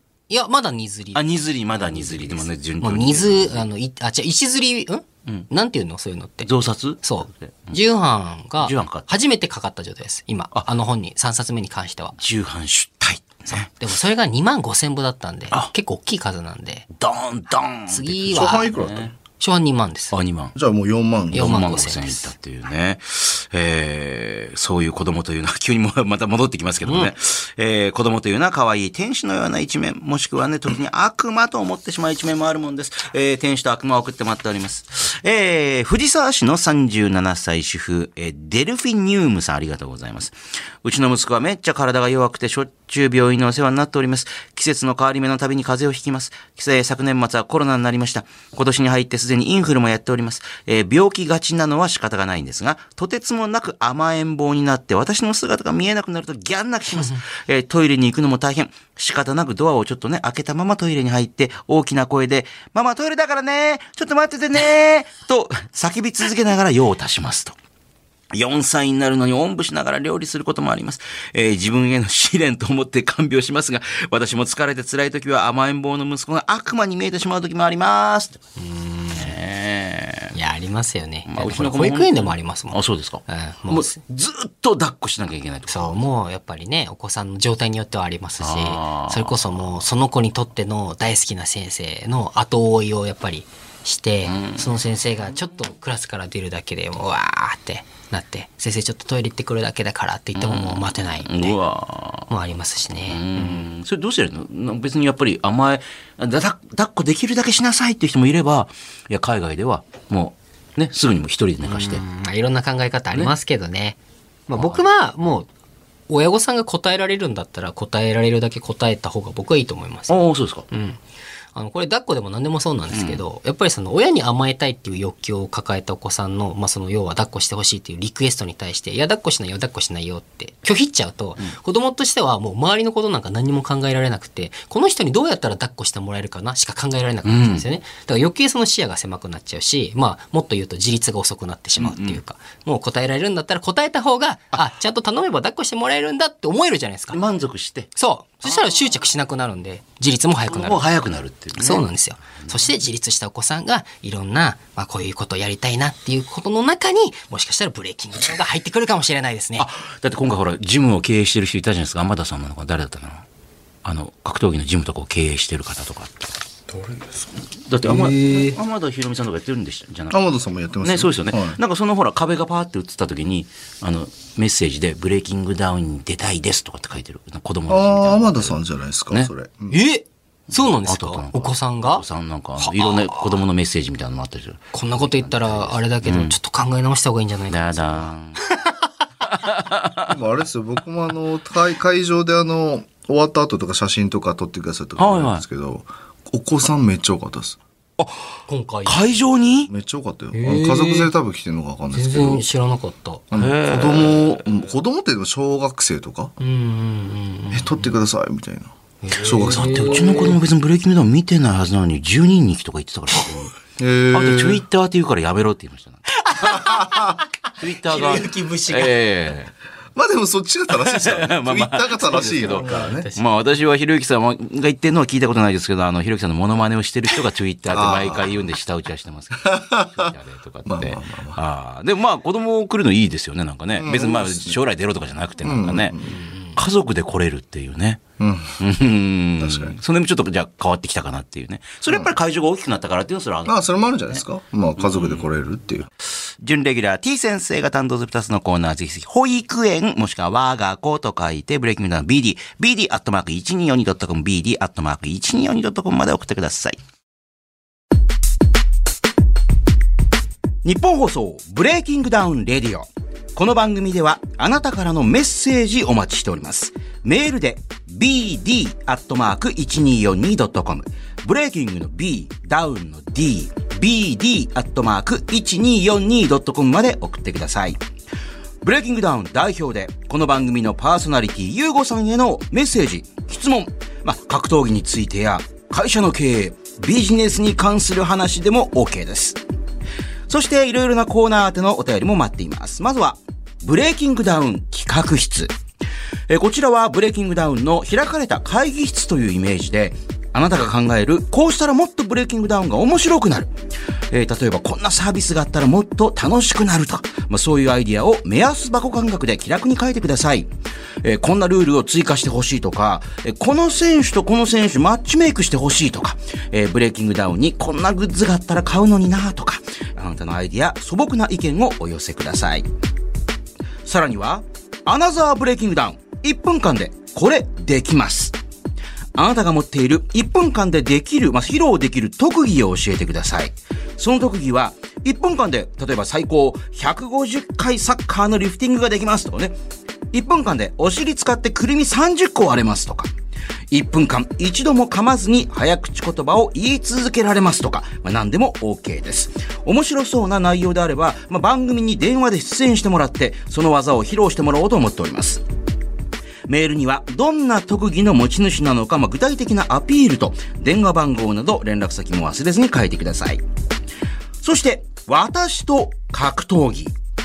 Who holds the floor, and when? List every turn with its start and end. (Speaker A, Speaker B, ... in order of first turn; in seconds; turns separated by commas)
Speaker A: 0.3-1.2, Speaker B: 1.1-3.7, Speaker A: 1.8-6.5, Speaker B: 6.5-7.8, Speaker A: 7.0-12.2, Speaker B: 8.6-9.1, Speaker B: 12.2-13.7, Speaker A: 13.5-16.9, Speaker B: 17.0-19.1, Speaker A: 17.9-18.7, Speaker C: 18.3-19.1, Speaker A: 19.4-20.1, Speaker B: 20.1-20.6, Speaker C: 20.6-21.6, Speaker A: 21.3-22.3, Speaker B: 21.3-67.6, Speaker A: 26.9-27.1, Speaker B: 68.3-78.4, Speaker A: 78.6-79.3, Speaker B: 79.1-80.3, Speaker A: 80.3-84.0, Speaker B: 81.3-86.0, Speaker A: 85.7-101.6, Speaker B: 88.4-89.8, Speaker B: 94.3-94.8, Speaker B: 100.4-102.3, Speaker A: 102.3-103.7, Speaker B: 103.0-112.0, Speaker A: 111.6-115.5, Speaker B: 114.5-114.8, Speaker A: 116.1-120.2, Speaker B: 120.1-120.7, Speaker A: 120.7-121.0, Speaker A: 121.5-147.2, Speaker B: 122.9-123.2, Speaker B: 137.2-137.7, Speaker B: 141.8-142.2, Speaker B: 147.1-147.9, Speaker A: 147.9-150.9, Speaker B: 150.4-151.9, Speaker A: 151.6-159.7, Speaker B: 159.6-163.2, Speaker B: 163.8-166.3, Speaker C: 166.7-167.3, Speaker B: 167.7-170.2, Speaker A: 167.8-168.6, Speaker C: 170.1-171.6, Speaker B: 170.8-178.6, Speaker C: 177.7-179.8, Speaker A: 179.7-182.0, Speaker B: 180.6-186.3, Speaker A: 182.6-183.3, Speaker A: 184.7-188.8, Speaker B: 187.5-188.4, Speaker B: 189.3-190.1, Speaker C: 190.1-197.6, Speaker B: 195.0-195.4, Speaker B: 198.0-199.7, Speaker A: 198.5-199.0, Speaker C: 199.7-202.4, Speaker A: 200.3-201.1, Speaker A: 201.9-203.2, Speaker C: 203.3-206.3, Speaker B: 203.3-204.6, Speaker A: 206.4-207.9, Speaker C: 207.5-210.0, Speaker A: 209.0-210.4, Speaker B: 209.3-213.6, Speaker C: 213.8-214.6, Speaker B: 214.1-216.0, Speaker A: 216.2-217.2, Speaker C: 216.6-217.1, Speaker B: 217.6-219.5, Speaker A: 217.8-218.9, Speaker C: 219.9-223.1, Speaker B: 220.7-236.0, Speaker A: 222.1-223.2, Speaker C: 227.7-228.4, Speaker C: 229.4-230.1, Speaker C: 230.6-231.4, Speaker C: 233.8-234.6, Speaker C: 235.4-236.2, Speaker A: 236.1-236.6, Speaker B: 236.5-238.0, Speaker C: 238.2-238.6, Speaker B: 238.6-244.2, Speaker C: 239.4-239.8, Speaker C: 241.9-242.1, Speaker C: 243.4-245.9, Speaker B: 244.8-245.3, Speaker B: 246.4-256.8, Speaker B: 260.6-277.8, Speaker B: 278.6-289.4, Speaker B: 290.3-295.5, Speaker B: 296.3-303.5, Speaker B: 304.1-310.5, Speaker B: 311.0-322.7, Speaker B: 323.9-328.4, Speaker B: 329.1-339.6, Speaker B: 340.1-343.1, Speaker B: 343.7-355.4, Speaker B: 356.5-363.4, Speaker B: 364.4-366.9